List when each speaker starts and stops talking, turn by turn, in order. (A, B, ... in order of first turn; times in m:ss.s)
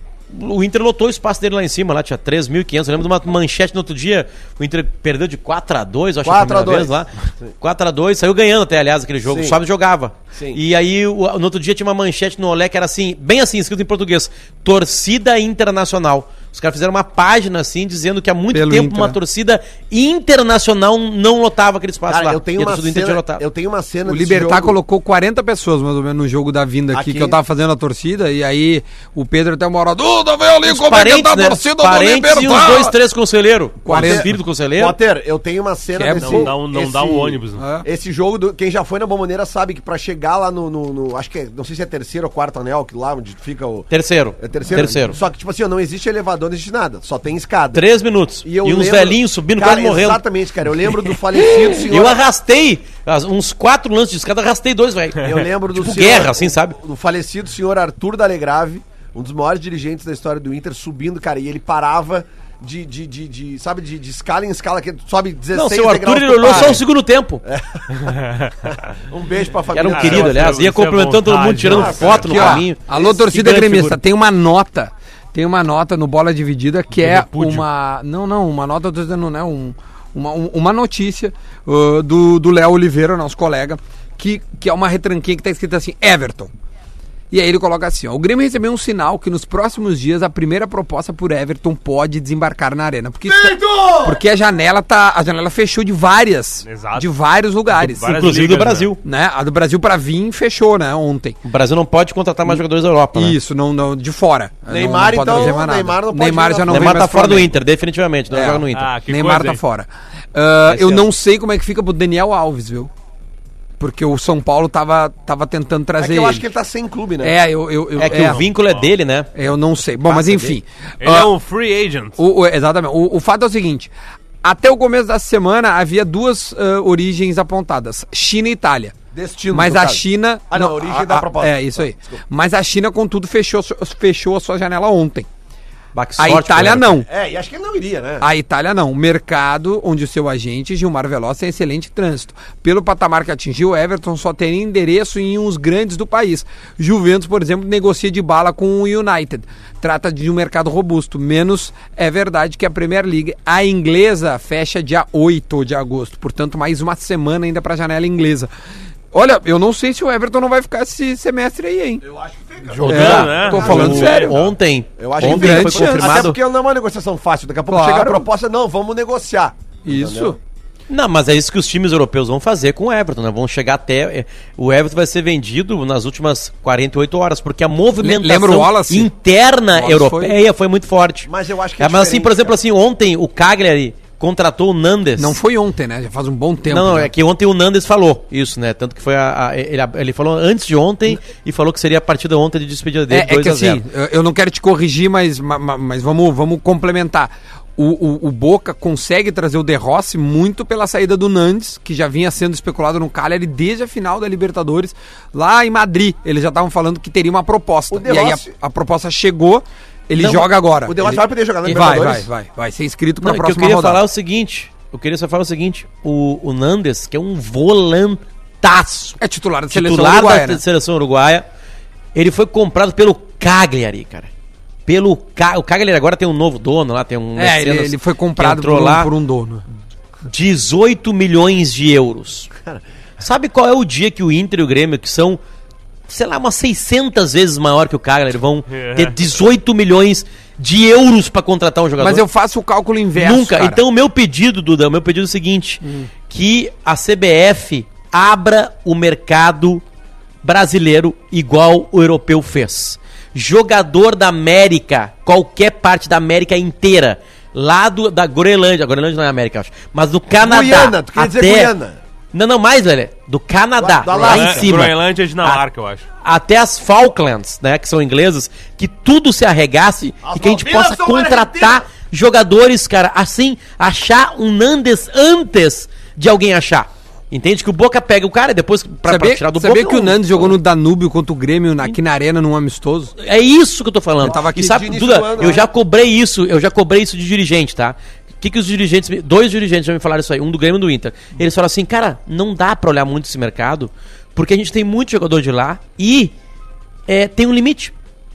0:00.3-0:23.4 A
0:06.2-0:06.9 B
0:09.3-0:09.6 B
0:18.5-0:19.2 C
0:22.1-0:24.8 B
0:24.1-0:33.0 C
0:26.9-0:27.4 B
0:30.6-0:35.0 A
0:33.8-0:34.3 C
0:33.9-0:47.8 B
0:36.0-0:36.6 C
0:36.2-0:37.6 D
0:37.6-0:37.9 C
0:43.9-0:45.2 A
0:47.7-0:50.2 A
0:48.4-0:52.2 B
0:50.8-0:56.8 A
0:55.2-1:06.8 B
1:05.5-1:07.4 A
1:06.5-1:06.7 C
1:07.4-1:08.1 B
1:08.0-1:08.7 D
1:09.1-1:10.6 B
1:09.7-1:14.0 A
1:09.9-1:12.2 D
1:11.7-1:13.1 B
1:12.2-1:26.5 C
1:17.0-1:17.6 D
1:27.3-1:38.1 C
1:33.3-1:34.2 B
1:36.6-1:37.1 D
1:37.7-1:38.9 D
1:38.0-1:39.0 A
1:39.0-1:41.4 C
1:41.4-1:43.4 A
1:43.1-1:47.6 C
1:44.7-1:47.1 B
1:46.7-1:48.9 A
1:48.3-1:52.9 C
1:48.7-1:49.6 D
1:50.7-1:51.1 A
1:53.8-1:56.4 C
1:56.0-1:57.4 B
1:57.2-1:58.4 C
1:58.0-1:59.3 A
1:58.1-1:58.9 D
1:59.4-2:01.3 C
2:00.1-2:00.6 A
2:01.0-2:02.2 D
2:02.2-2:03.9 C
2:04.4-2:09.0 C
2:09.1-2:12.2 B
2:09.5-2:15.3 C
2:15.9-2:17.0 A
2:16.2-2:17.1 C
2:17.0-2:18.2 B
2:18.2-2:38.5 C
2:39.1-2:42.0 C
2:42.0-2:44.4 B
2:42.7-2:46.4 A
2:42.8-2:44.0 D
2:42.9-2:44.4 C
2:45.0-2:50.4 B
2:45.2-2:46.3 C
2:47.7-2:48.3 C
2:49.8-2:50.4 C
2:50.9-3:05.4 A
2:58.0-2:59.1 C
2:59.7-3:00.4 C
3:01.3-3:02.6 B
3:05.2-3:07.1 C
3:06.7-3:13.8 A
3:13.1-3:34.0 C
3:27.9-3:28.5 B
3:30.2-3:30.5 A
3:30.8-3:32.3 B
3:33.2-3:39.2 A
3:39.2-3:40.6 C
3:39.7-3:41.5 A
3:42.1-3:44.3 A
3:44.9-3:49.1 A
3:47.4-3:49.7 C
3:50.2-3:52.5 A
3:53.2-3:55.4 A
3:56.1-4:02.2 A
3:58.7-3:59.1 D
4:02.0-4:03.8 C
4:03.1-4:09.8 A
4:05.8-4:06.1 C
4:10.4-4:21.7 A
4:20.4-4:22.0 B
4:22.3-4:25.6 A
4:23.8-4:24.7 B
4:24.2-4:26.0 D
4:26.2-4:40.6 A
4:30.2-4:31.8 B
4:39.0-4:43.1 C
4:43.2-4:56.3 A
4:44.2-4:44.9 C
4:44.3-4:45.6 B
4:57.1-4:57.9 A